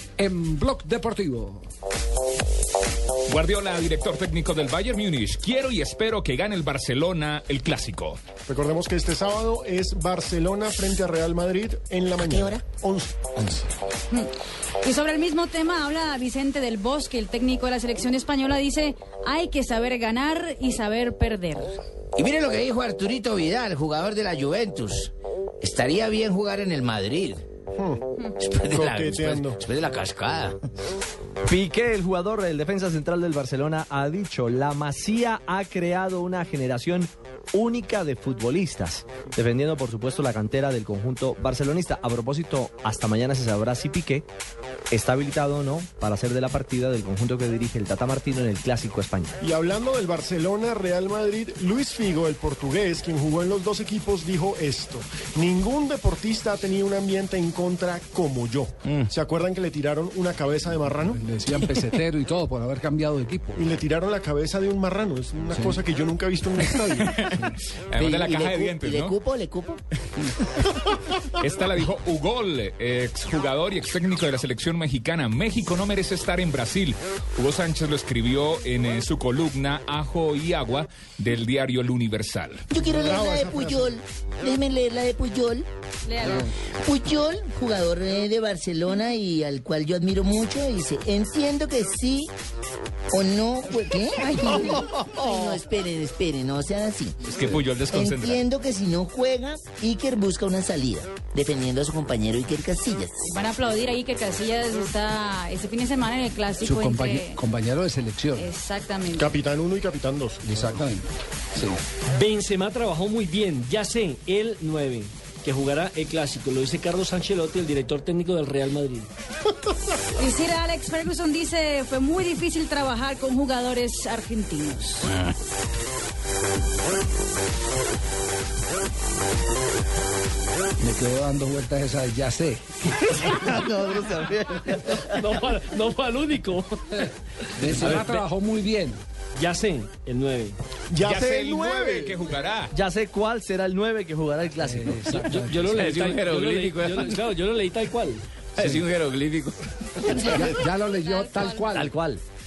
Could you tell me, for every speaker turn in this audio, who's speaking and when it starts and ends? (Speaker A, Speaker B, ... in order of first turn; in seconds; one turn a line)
Speaker A: 0.2-1.6
Speaker B: 3.3-8.2
Speaker C: 8.5-13.1
Speaker D: 14.8-21.8
Speaker E: 22.1-27.4
Speaker C: 27.8-28.0
Speaker E: 28.4-30.6
Speaker C: 28.7-29.6
Speaker F: 31.4-44.3
Speaker F: 44.9-49.3
Speaker C: 49.4-61.2
Speaker A: 61.1-63.6
Speaker C: 63.5-67.3
Speaker B: 67.0-69.2
Speaker G: 68.0-69.8
Speaker B: 71.4-82.6
Speaker G: 82.7-85.6
Speaker C: 82.8-83.9
Speaker D: 86.0-86.5
Speaker G: 86.8-92.3
Speaker G: 93.1-97.2
Speaker E: 95.2-95.5
Speaker B: 97.2-98.4
Speaker G: 97.9-103.2
Speaker D: 103.2-107.4
Speaker A: 106.6-108.5
Speaker D: 108.3-109.3
Speaker C: 109.1-110.4
Speaker A: 110.4-111.8
Speaker H: 112.1-119.1
Speaker D: 120.2-125.1
Speaker A: 130.8-133.6
Speaker F: 133.3-134.8
Speaker H: 134.8-136.8
Speaker A: 137.6-139.0
Speaker H: 139.4-140.5
Speaker C: 140.9-142.2
Speaker B: 141.0-142.7
Speaker F: 142.7-145.2
Speaker A: 144.6-145.9
Speaker H: 145.4-148.2
Speaker E: 145.7-147.3
Speaker E: 148.8-150.2
Speaker D: 150.1-151.8
Speaker A: 150.2-151.9
Speaker F: 151.7-152.2